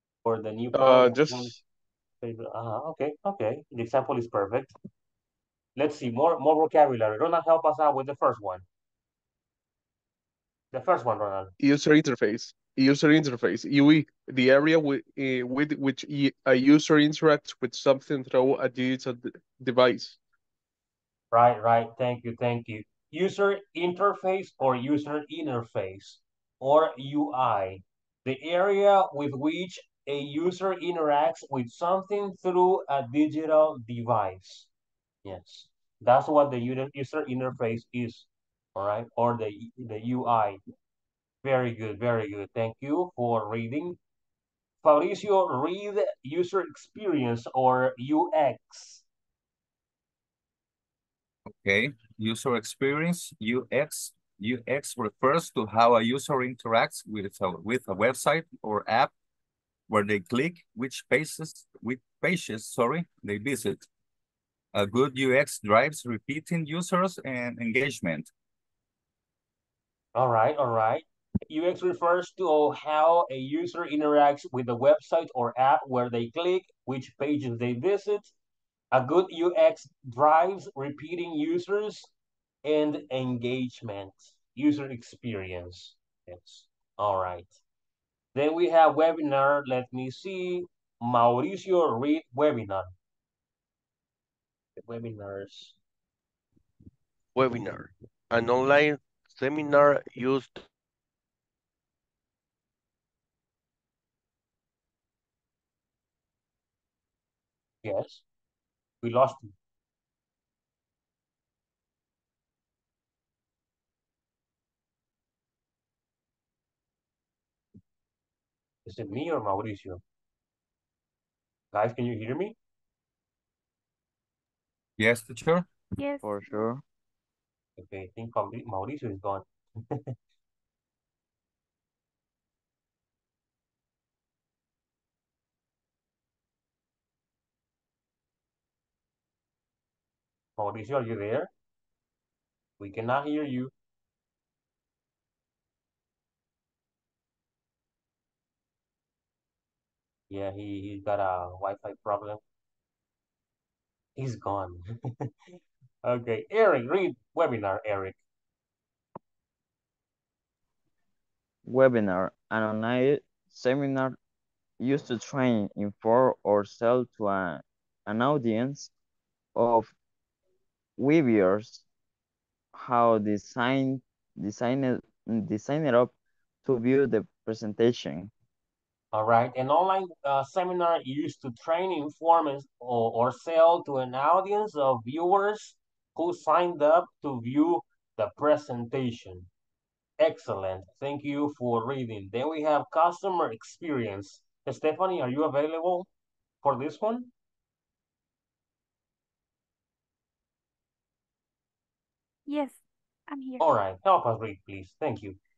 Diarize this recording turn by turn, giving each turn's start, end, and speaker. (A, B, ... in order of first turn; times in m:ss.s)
0:00.2-0:01.6 A
0:00.7-0:01.6 B
0:02.2-0:04.7 A
0:05.8-0:08.6 A
0:10.7-0:11.5 A
0:11.6-0:20.2 B
0:21.3-0:34.7 A
0:35.2-0:40.6 A
0:41.4-0:44.0 A
0:44.8-0:49.0 A
0:51.5-0:59.1 C
0:59.9-1:03.8 C
1:04.7-1:08.3 C
1:10.1-1:18.3 A
1:18.9-1:22.1 A
1:22.6-1:27.5 A
1:28.3-1:32.9 A
1:34.8-1:35.8 A
1:37.3-1:40.6 D
1:47.8-1:48.2 A
1:49.0-1:49.5 A
1:58.8-2:00.0 A
2:01.7-2:02.5 A
2:05.0-2:05.7 C
2:06.0-2:06.6 E
2:06.2-2:06.8 F
2:07.8-2:10.0 A
2:20.6-2:21.5 A
2:22.8-2:23.7 A
2:30.3-2:32.4 A
2:34.2-2:35.3 A
2:36.0-2:38.2 A
2:41.6-2:44.2 F
2:44.8-2:48.9 F
2:49.5-2:49.9 F
2:51.0-2:51.8 F
2:52.7-2:56.1 F
2:56.6-2:58.3 F
2:59.1-3:09.5 A
3:10.2-3:16.1 A
3:16.6-3:17.3 A
3:22.5-3:23.7 E
3:23.6-3:25.4 A